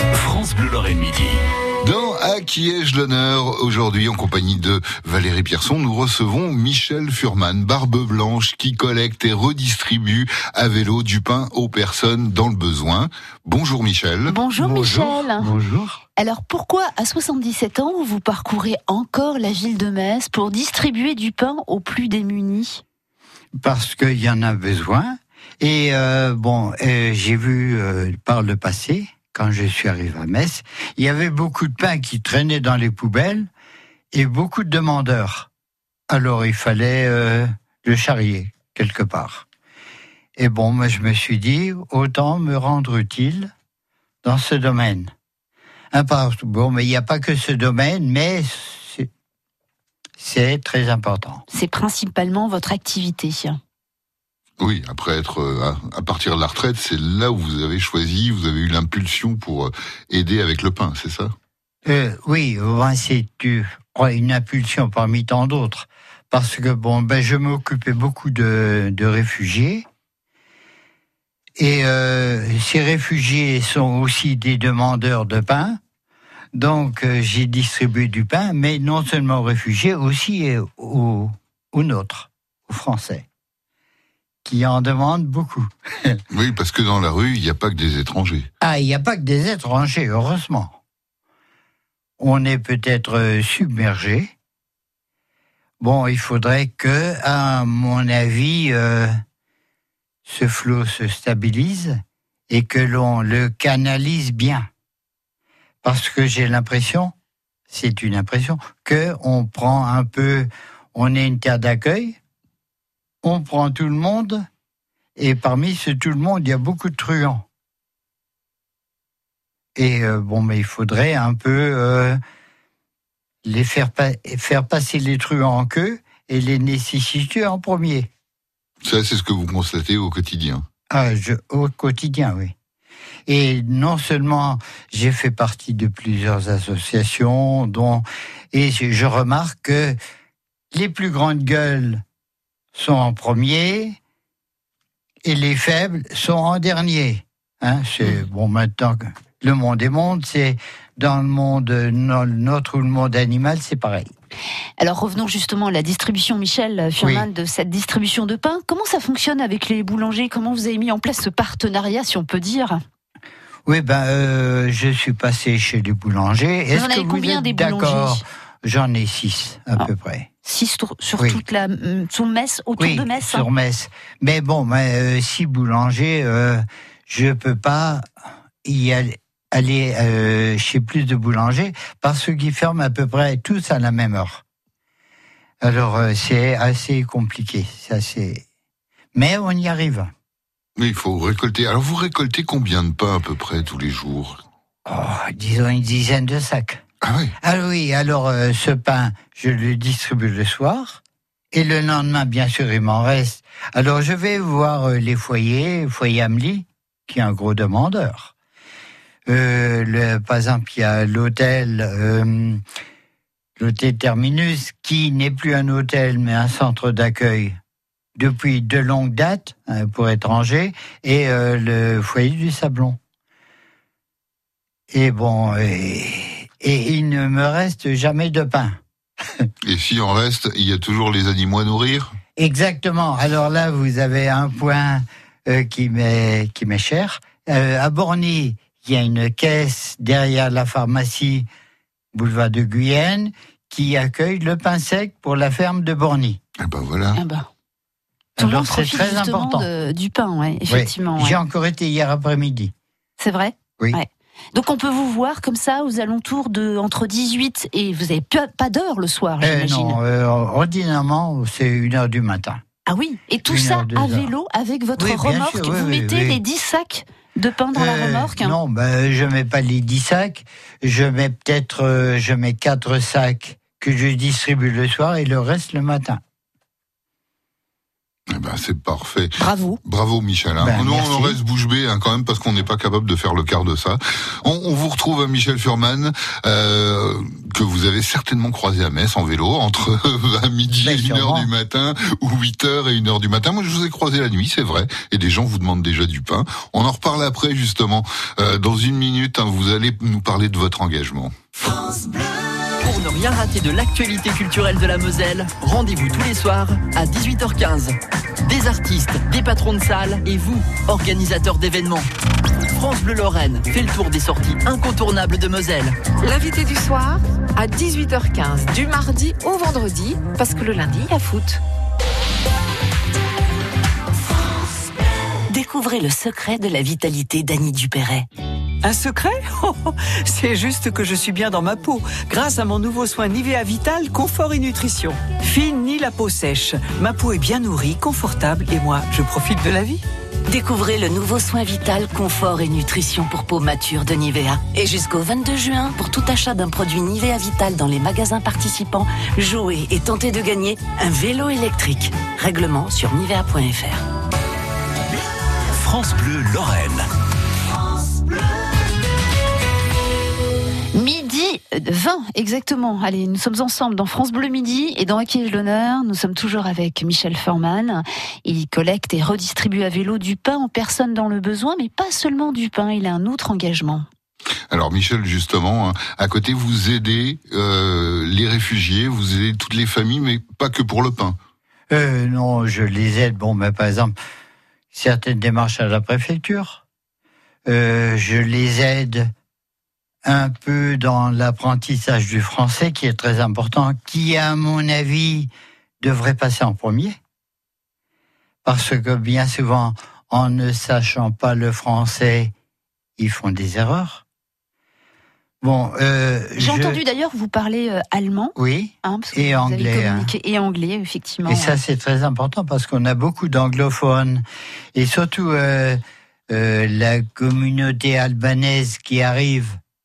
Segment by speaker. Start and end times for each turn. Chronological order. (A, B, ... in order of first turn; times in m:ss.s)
0:00.2-0:01.4 A
0:01.8-0:14.4 B
0:14.3-0:15.5 C
0:14.6-0:16.0 D
0:16.2-0:22.8 C
0:23.6-0:33.5 D
0:34.1-0:35.5 D
0:36.1-0:39.4 D
0:40.4-0:43.5 D
0:44.2-0:45.1 D
0:45.9-0:49.1 D
0:50.2-0:51.4 D
0:51.5-0:53.6 C
0:54.6-1:01.3 B
1:01.8-1:09.8 D
1:11.6-1:15.8 D
1:16.5-1:23.2 D
1:24.4-1:26.2 D
1:26.3-1:28.5 B
1:28.6-1:30.8 D
1:32.2-1:34.3 D
1:35.8-1:39.1 D
1:40.2-1:44.7 D
1:45.8-1:47.1 D
1:47.7-1:52.2 D
1:53.2-1:54.4 D
1:55.2-1:57.4 D
1:59.8-2:02.2 D
2:03.4-2:08.1 D
2:08.8-2:10.6 B
2:10.9-2:12.5 D
2:13.3-2:20.0 D
2:20.7-2:22.0 D
2:22.7-2:24.0 D
2:25.2-2:34.1 D
2:34.8-2:42.8 C
2:37.0-2:37.3 D
2:43.7-2:50.3 D
2:46.7-2:48.2 C
2:50.4-2:53.5 C
2:52.8-2:58.1 D
2:58.6-3:04.4 D
3:05.6-3:08.4 D
3:09.1-3:10.1 D
3:10.8-3:14.4 B
3:14.8-3:16.8 D
3:17.0-3:17.3 B
3:17.4-3:21.0 D
3:21.5-3:28.3 D
3:29.3-3:32.6 D
3:33.6-3:37.6 D
3:38.2-3:43.0 D
3:44.9-3:48.8 D
3:49.7-3:52.1 B
3:52.4-4:01.4 D
4:02.1-4:06.4 D
4:06.6-4:07.2 B
4:07.2-4:07.5 C
4:08.4-4:09.7 D
4:08.4-4:11.4 C
4:10.7-4:12.7 D
4:13.2-4:20.0 C
4:19.4-4:22.6 D
4:22.8-4:28.6 C
4:23.4-4:24.3 D
4:25.0-4:26.4 D
4:27.7-4:36.2 D
4:38.3-5:01.3 B
4:39.4-4:39.8 C
4:40.6-4:41.4 D
4:50.7-4:51.5 D
5:02.8-5:12.1 E
5:12.8-5:16.0 E
5:16.2-5:21.6 F
5:25.5-5:28.2 G
5:28.8-5:40.0 H
5:40.5-5:54.0 G
5:55.7-5:57.1 A
6:00.9-6:14.0 C
6:14.7-6:21.4 B
6:21.9-6:24.1 D
6:24.9-6:26.8 D
6:27.7-6:29.3 D
6:30.2-6:35.5 D
6:36.0-6:37.2 D
6:38.6-6:42.5 D
6:43.2-6:44.2 D
6:45.6-6:47.0 D
6:46.6-6:51.8 C
6:48.6-6:50.3 D
6:51.4-6:54.4 D
6:54.9-6:56.0 D
6:56.5-6:59.8 D